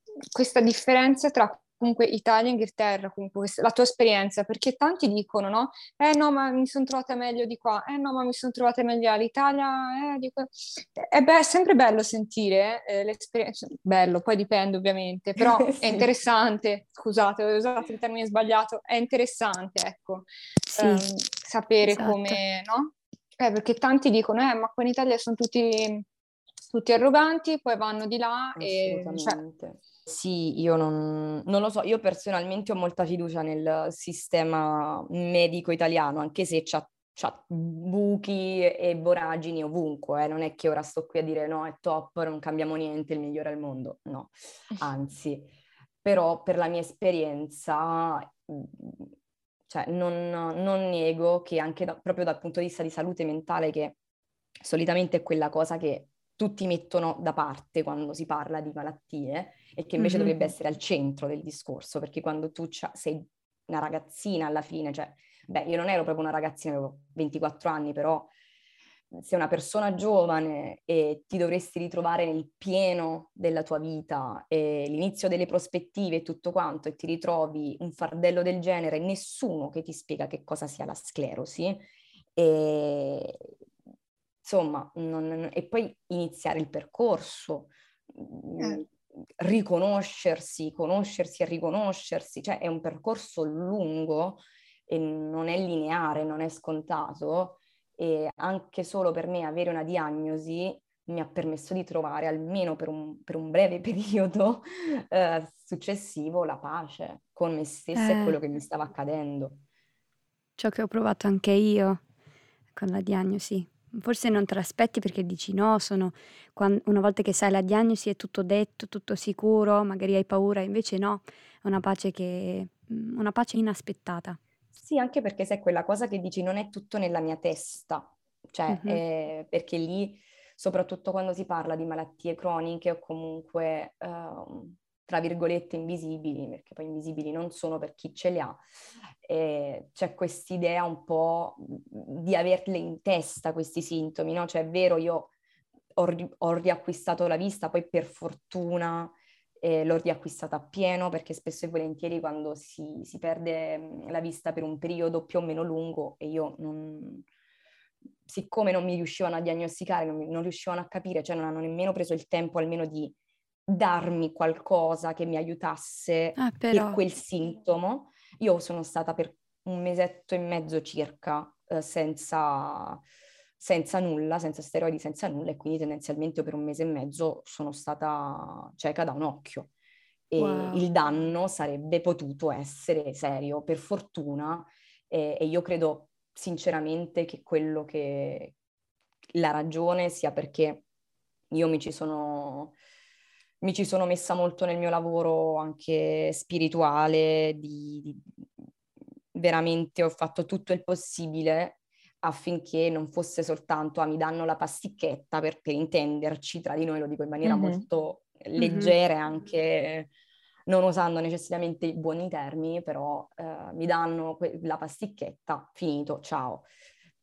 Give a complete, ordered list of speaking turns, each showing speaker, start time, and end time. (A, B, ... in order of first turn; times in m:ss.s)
0:00.3-0:26.0 A
0:15.7-0:16.1 B
0:20.7-0:21.0 C
0:21.8-0:22.4 C
0:26.7-0:29.4 A
0:28.6-0:45.5 B
0:46.0-0:49.1 B
0:49.7-0:54.0 B
0:54.6-1:08.3 B
1:00.0-1:00.4 C
1:09.1-1:23.5 B
1:24.4-1:49.6 B
1:47.9-1:48.4 C
1:50.6-1:52.0 C
1:52.8-2:04.4 C
2:04.8-2:18.6 B
2:08.7-2:09.0 C
2:19.2-2:25.3 B
2:26.0-2:37.2 B
2:38.2-2:43.1 B
2:43.7-2:53.0 B
2:46.4-2:47.0 C
2:53.6-2:59.7 B
3:00.3-3:08.5 B
3:00.4-3:00.9 C
3:09.3-3:10.8 B
3:11.5-3:12.8 B
3:13.6-3:18.5 B
3:19.3-3:30.1 B
3:27.4-3:27.8 A
3:28.6-3:29.0 C
3:30.7-3:36.7 B